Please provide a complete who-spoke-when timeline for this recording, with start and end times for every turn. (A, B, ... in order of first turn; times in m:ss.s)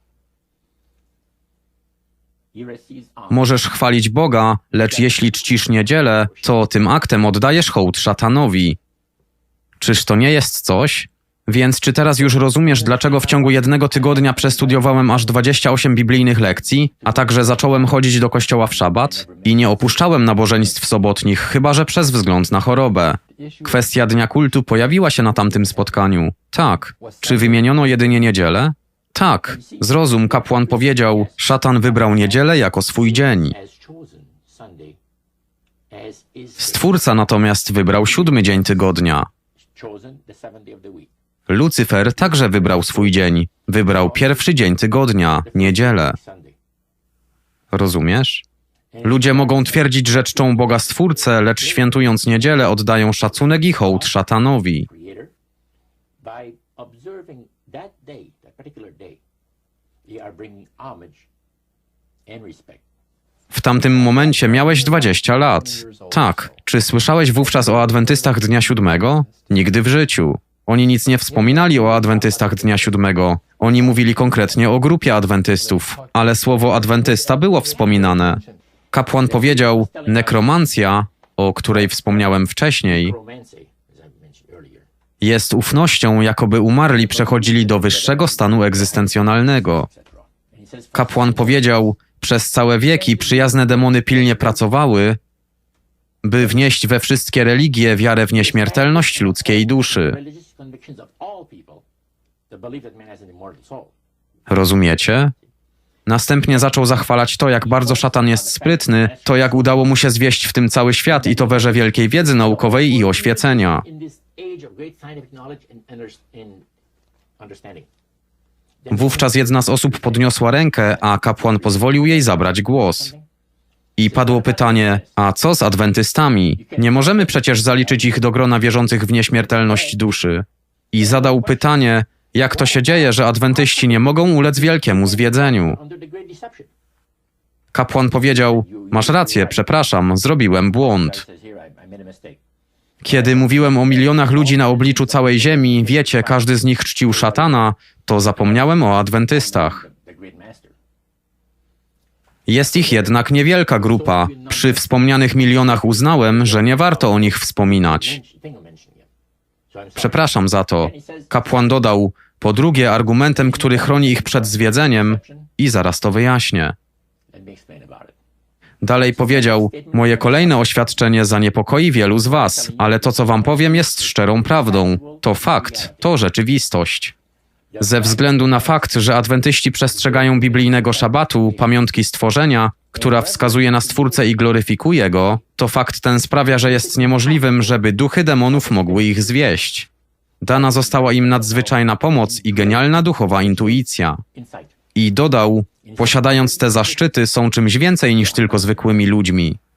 0:02.5-0:03.5 A
0:03.3-0:08.8 B
0:04.9-0:06.5 A
0:09.8-0:33.6 B
0:12.3-0:15.4 A
0:16.9-0:20.2 A
0:27.1-0:27.4 A
0:29.5-0:35.0 A
0:35.9-0:37.1 A
0:36.6-0:39.3 B
0:38.1-0:38.6 A
0:39.7-0:41.1 A
0:41.5-0:46.2 B
0:42.3-0:43.2 A
0:43.8-0:44.6 A
0:45.4-0:46.5 A
0:47.7-0:48.4 B
0:48.9-0:52.0 A
0:49.0-0:54.9 B
0:53.6-0:54.1 A
0:54.8-0:55.3 A
0:56.2-0:59.2 A
1:00.1-1:01.2 A
1:02.3-1:02.8 A
1:03.5-1:23.2 B
1:03.8-1:06.6 A
1:11.3-1:13.0 A
1:17.4-1:18.4 A
1:19.2-1:20.7 A
1:21.8-1:22.3 A
1:22.9-1:24.8 A
1:25.2-1:29.9 B
1:26.9-1:31.9 A
1:30.9-1:35.2 B
1:32.9-1:34.6 A
1:36.2-1:40.2 B
1:38.3-1:41.8 A
1:42.5-1:43.9 A
1:44.5-1:45.3 B
1:46.1-1:53.8 B
1:47.6-1:49.6 A
1:51.1-1:56.6 A
1:57.4-1:57.9 A
1:58.8-2:03.2 A
1:58.9-2:03.1 B
2:04.0-2:15.8 B
2:04.1-2:05.2 A
2:06.6-2:08.3 A
2:09.4-2:10.0 A
2:11.0-2:16.7 A
2:17.7-2:21.2 B
2:18.2-2:19.7 A
2:20.7-2:22.4 A
2:23.0-2:29.8 B
2:23.1-2:27.6 A
2:28.3-2:28.8 A
2:29.3-2:30.7 A
2:32.5-2:38.2 B
2:32.6-2:33.1 A
2:33.8-2:39.1 A
2:39.7-2:41.5 A
2:40.0-2:46.7 B
2:43.4-2:45.5 A
2:47.3-2:48.1 A
2:48.8-2:57.1 B
2:48.9-2:51.0 A
2:52.2-2:56.2 A
2:57.7-2:58.9 A
2:57.8-3:09.9 B
2:59.9-3:01.7 A
3:02.9-3:04.3 A
3:06.4-3:07.8 A
3:08.4-3:09.6 A
3:10.4-3:14.2 B
3:10.5-3:13.8 A
3:14.3-3:14.7 A
3:14.9-3:19.6 B
3:15.8-3:17.0 A
3:18.2-3:18.9 A